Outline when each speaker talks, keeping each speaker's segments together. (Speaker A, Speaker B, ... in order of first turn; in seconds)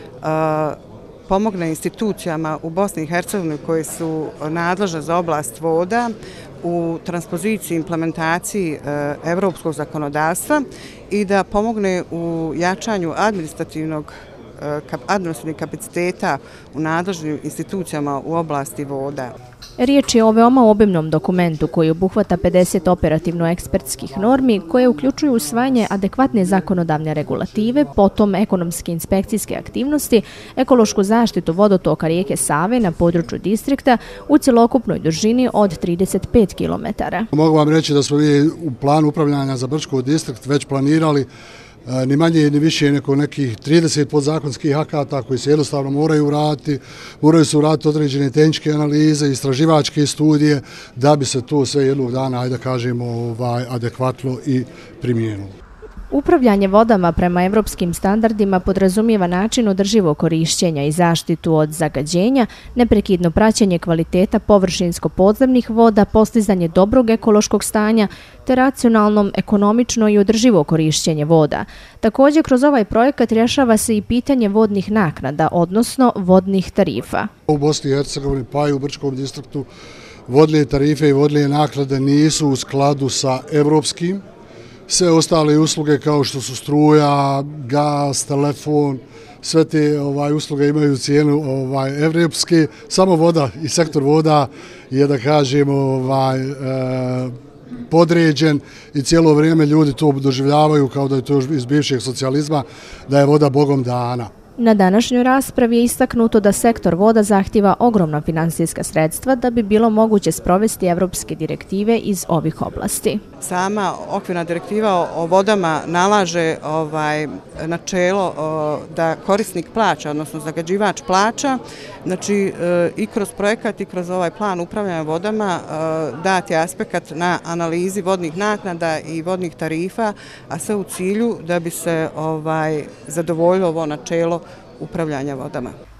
Speaker A: 0.2-0.8, 1.3-19.3, 113.4-135.7
Speaker B: 19.8-37.3, 56.1-77.3, 104.6-113.2
Speaker C: 37.3-41.3, 41.9-55.5, 77.5-79.7, 80.3-84.2, 84.9-97.3, 97.9-104.3